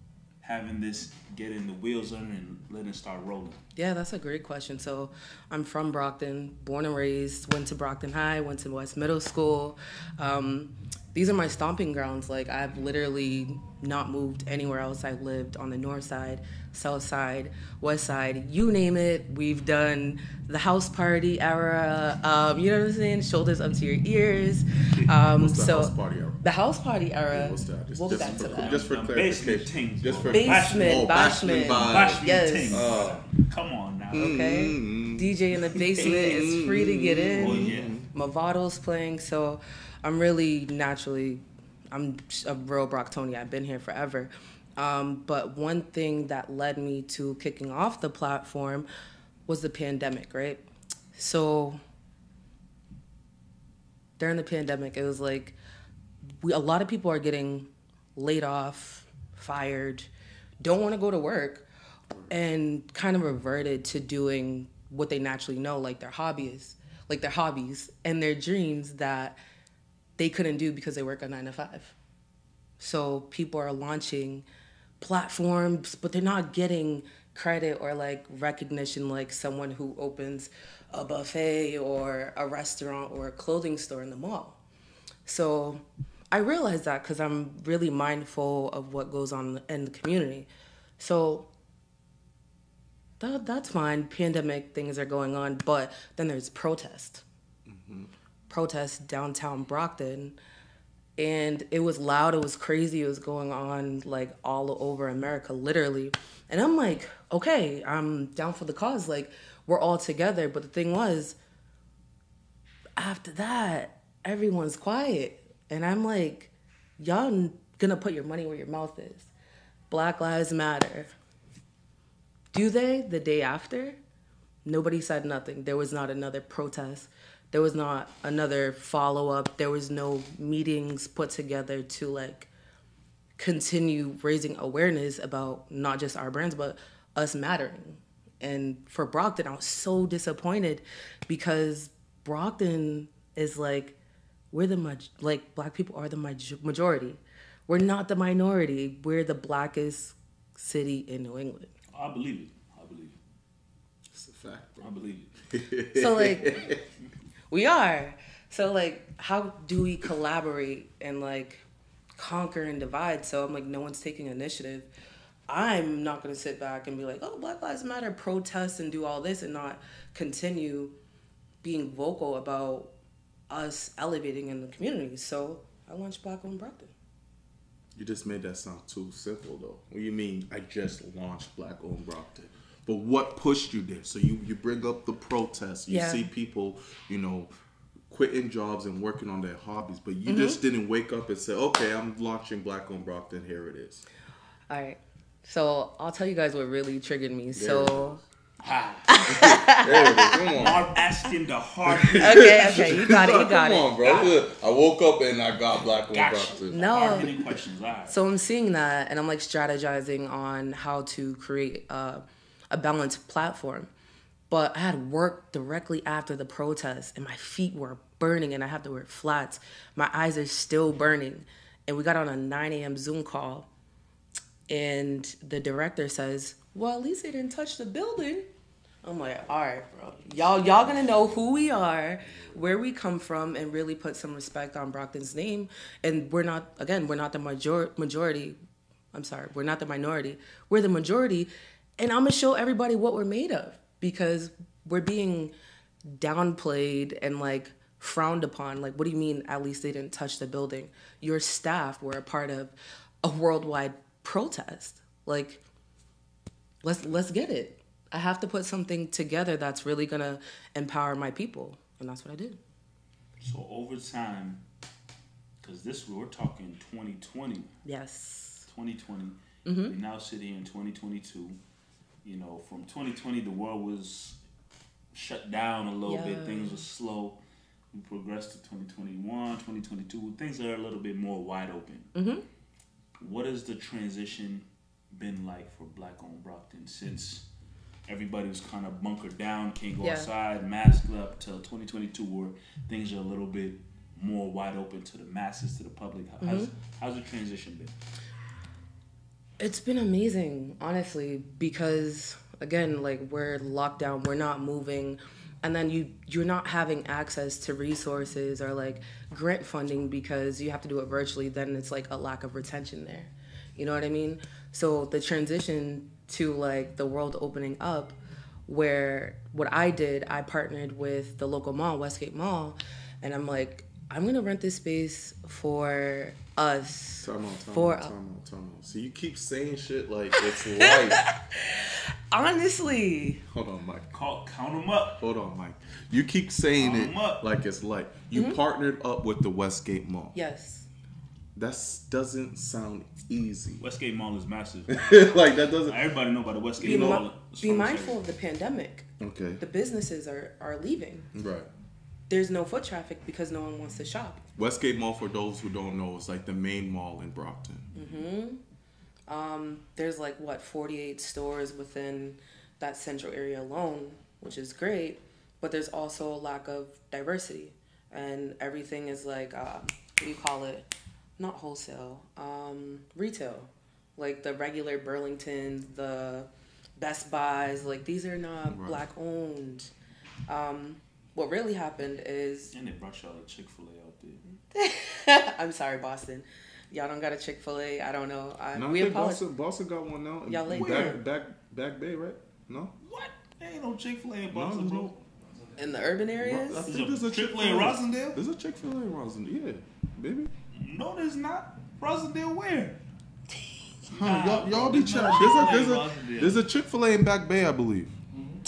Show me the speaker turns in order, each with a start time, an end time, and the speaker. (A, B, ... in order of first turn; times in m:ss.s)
0:00.4-0:03.6 A
0:03.7-0:28.8 B
0:25.2-0:26.4 C
0:27.3-0:33.3 C
0:28.1-0:34.3 A
0:30.3-0:32.9 B
0:34.1-0:38.1 C
0:34.2-0:48.9 B
0:36.0-0:36.5 A
0:37.4-0:37.9 A
0:49.5-0:50.6 B
0:51.1-0:51.8 B
0:54.2-0:55.6 B
0:56.4-1:00.1 B
1:00.6-1:01.6 B
1:02.3-1:09.4 B
1:10.2-1:11.9 B
1:12.8-1:14.4 B
1:15.0-1:24.6 B
1:25.2-1:31.5 B
1:33.2-1:37.2 B
1:37.6-1:38.1 C
1:38.5-1:40.4 B
1:41.2-1:51.4 B
1:53.0-1:59.3 B
1:59.9-2:01.1 B
2:02.5-2:04.0 B
2:04.6-2:12.5 B
2:13.4-2:24.0 B
2:24.5-2:31.7 B
2:31.9-2:33.2 A
2:34.1-2:34.9 C
2:34.8-2:35.3 A
2:35.5-2:36.8 C
2:35.9-2:36.6 B
2:37.5-2:41.6 B
2:42.2-2:44.9 B
2:45.5-2:50.9 B
2:51.6-2:52.9 B
2:53.5-2:56.9 B
2:58.0-3:07.5 C
3:05.9-3:06.3 B
3:08.1-3:14.0 C
3:10.3-3:10.6 B
3:14.7-3:18.2 B
3:17.5-3:18.1 C
3:18.6-3:19.6 A
3:19.1-3:20.7 B
3:19.3-3:20.9 C
3:20.5-3:23.0 A
3:21.8-3:27.4 C
3:22.2-3:24.0 B
3:24.0-3:24.4 A
3:25.9-3:28.2 A
3:26.7-3:27.4 B
3:28.1-3:33.9 B
3:34.5-3:43.7 B
3:44.7-3:48.5 B
3:49.0-3:58.6 B
3:50.6-3:51.2 C
3:52.3-3:52.6 C
3:59.1-4:05.5 B
4:06.0-4:15.6 B
4:16.8-4:22.6 B
4:23.4-4:24.6 A
4:25.6-4:27.7 A
4:27.8-4:28.7 B
4:28.7-4:31.6 A
4:29.6-4:30.0 B
4:32.2-4:34.4 A
4:35.1-4:37.4 A
4:36.0-4:36.8 B
4:37.9-4:42.1 A
4:42.1-4:42.4 B
4:43.2-4:47.5 A
4:48.1-4:57.9 A
4:50.0-4:50.3 B
4:56.4-4:56.7 B
4:59.6-5:18.2 B
5:18.7-5:28.1 B
5:27.2-5:31.2 C
5:30.4-5:33.4 B
5:33.5-5:34.1 C
5:34.1-5:35.2 A
5:35.2-5:40.4 C
5:36.8-5:37.4 A
5:38.3-5:38.6 B
5:40.3-5:40.9 B
5:41.5-5:43.8 C
5:43.8-5:45.1 A
5:44.9-5:46.1 C
5:45.8-5:48.2 A
5:46.8-5:47.2 C
5:46.8-5:49.1 B
5:49.2-5:49.6 C
5:49.6-5:51.3 B
5:51.3-5:51.7 C
5:52.3-5:54.4 B
5:54.6-5:58.1 C
5:57.9-5:58.6 B
5:59.3-6:10.9 B
6:11.4-6:19.9 B
6:18.7-6:19.0 C
6:20.5-6:22.7 B
6:22.7-6:24.6 A
6:24.7-6:29.4 B
6:28.7-6:32.9 C
6:30.5-6:31.2 B
6:33.0-6:35.1 A
6:34.5-6:35.2 C
6:35.8-6:36.9 B
6:36.4-6:40.5 C
6:36.8-6:38.4 A
6:40.7-6:43.0 A
6:44.1-6:48.1 C
6:44.1-6:46.6 A